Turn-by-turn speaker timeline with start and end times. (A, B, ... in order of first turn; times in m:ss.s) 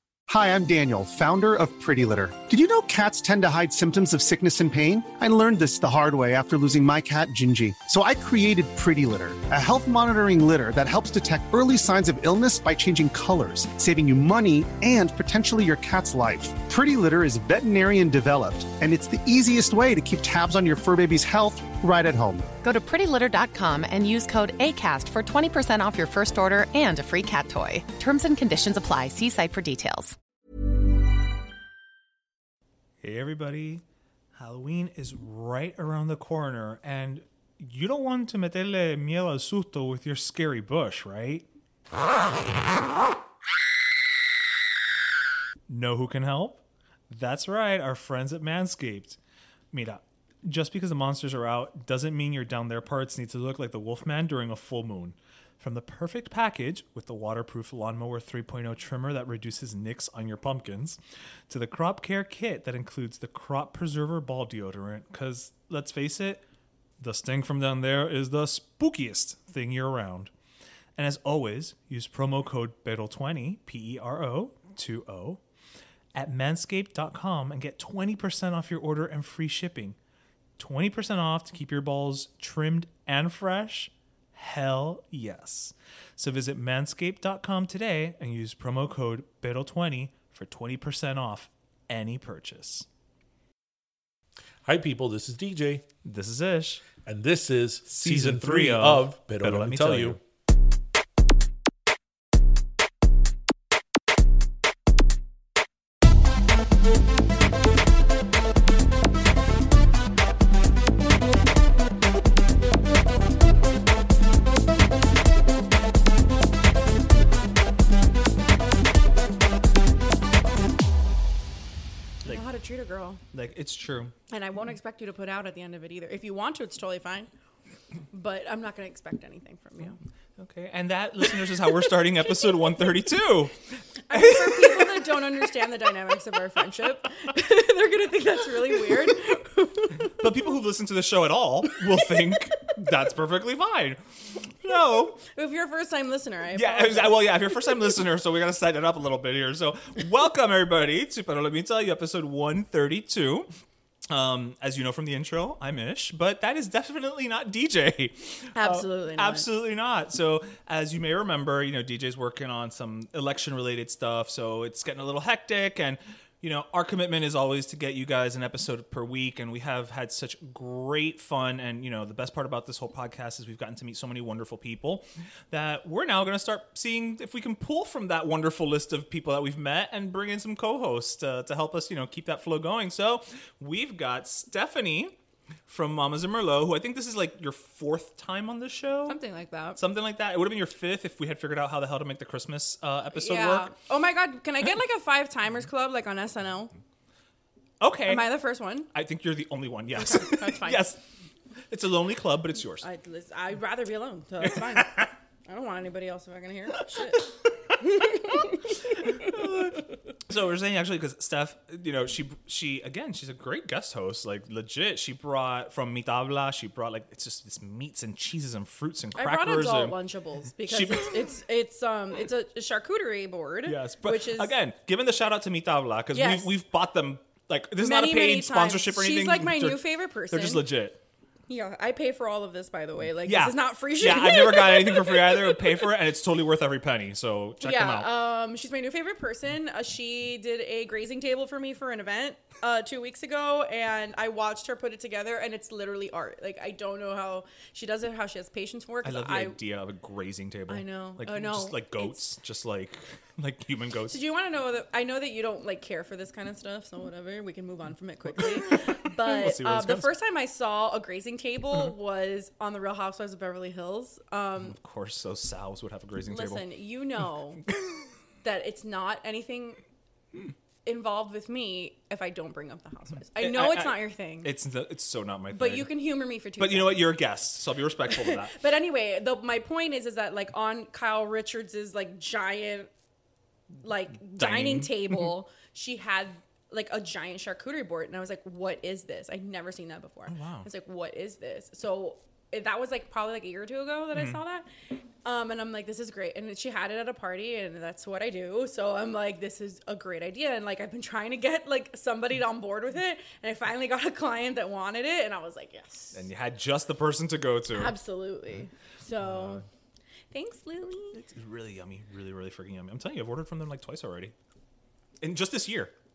0:00.3-0:22.5 A
0:22.6-0:30.2 B
0:33.0-0:33.8 C
0:34.4-0:41.4 C
0:45.7-0:49.2 C
0:49.7-1:01.0 C
1:01.5-1:06.4 C
1:07.0-1:10.3 C
1:11.0-1:15.4 C
1:16.2-1:20.0 C
1:20.6-1:32.9 C
1:34.6-1:35.8 D
1:36.0-1:36.9 C
1:37.0-1:40.2 D
1:37.9-1:40.2 C
2:02.3-2:03.2 E
2:03.3-2:04.1 C
2:04.3-2:07.3 E
2:08.1-2:10.0 E
2:10.4-2:13.6 C
2:14.1-2:20.2 E
2:14.1-2:15.1 C
2:20.2-2:25.2 C
2:25.2-2:27.9 E
2:26.5-2:33.5 C
2:34.1-3:09.2 C
2:38.6-2:39.5 E
3:09.1-3:09.8 E
3:09.8-3:13.7 C
3:13.1-3:16.7 E
3:17.8-3:18.3 C
3:18.0-3:18.9 E
3:18.9-3:21.0 C
3:20.0-3:20.8 E
3:21.7-3:22.9 C
3:22.8-3:28.7 E
3:24.5-3:25.0 C
3:29.2-3:40.0 C
3:39.2-3:44.6 E
3:40.7-3:41.2 C
3:43.7-3:51.0 C
3:46.1-3:46.5 E
3:47.8-3:50.6 E
3:51.5-3:55.6 E
3:53.3-3:58.1 C
3:57.6-4:09.6 E
4:09.0-4:14.2 C
4:10.7-4:12.2 E
4:14.1-4:24.8 E
4:18.6-4:20.1 C
4:24.7-4:26.6 C
4:26.3-4:27.6 E
4:28.4-4:29.8 E
4:30.8-4:34.5 E
4:33.4-4:35.9 C
4:35.5-4:37.1 E
4:36.6-4:38.6 C
4:38.1-4:42.9 E
4:43.8-4:54.7 E
4:44.3-4:45.3 C
4:50.3-4:50.7 C
4:54.1-4:54.4 C
4:55.2-5:06.3 E
5:06.1-5:07.9 C
5:07.7-5:09.6 E
5:09.2-5:09.6 C
5:10.3-5:11.2 E
5:11.1-5:14.3 C
5:15.2-5:15.9 C